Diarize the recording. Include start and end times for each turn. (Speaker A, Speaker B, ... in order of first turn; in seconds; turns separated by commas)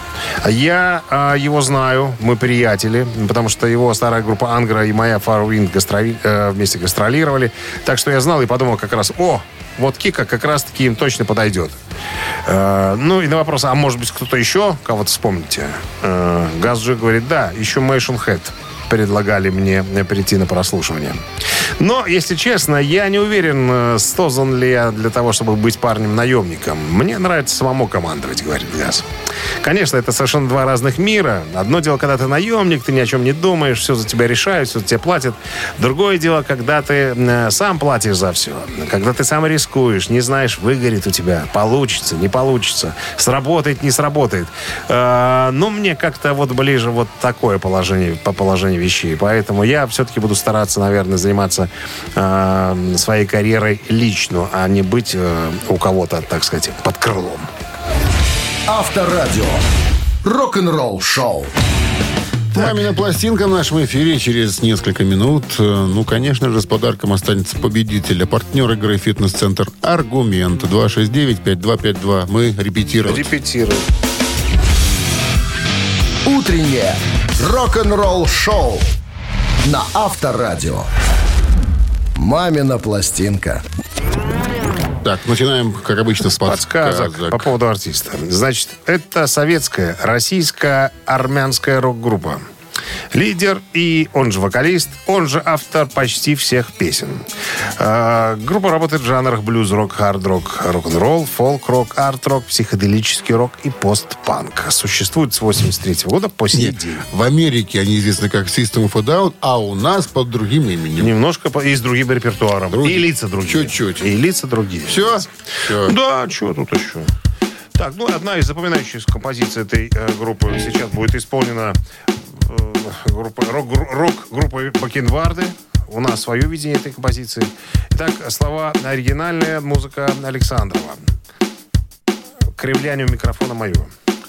Speaker A: 0.4-11.8, Speaker A: 12.4-21.2, Speaker A: 21.8-29.1, Speaker A: 29.6-57.5, Speaker B: 58.7-59.6, Speaker B: 60.2-61.5, Speaker C: 62.5-73.3, Speaker A: 73.0-73.8, Speaker B: 76.2-78.9, Speaker B: 79.6-80.9, Speaker B: 82.2-83.6, Speaker C: 85.0-87.5, Speaker A: 86.2-92.4, Speaker A: 93.1-97.2, Speaker A: 97.8-107.0, Speaker C: 106.5-111.1, Speaker A: 111.0-117.1, Speaker C: 112.7-114.1, Speaker C: 114.9-116.0, Speaker A: 117.8-121.8, Speaker A: 122.3-131.1, Speaker A: 132.5-133.9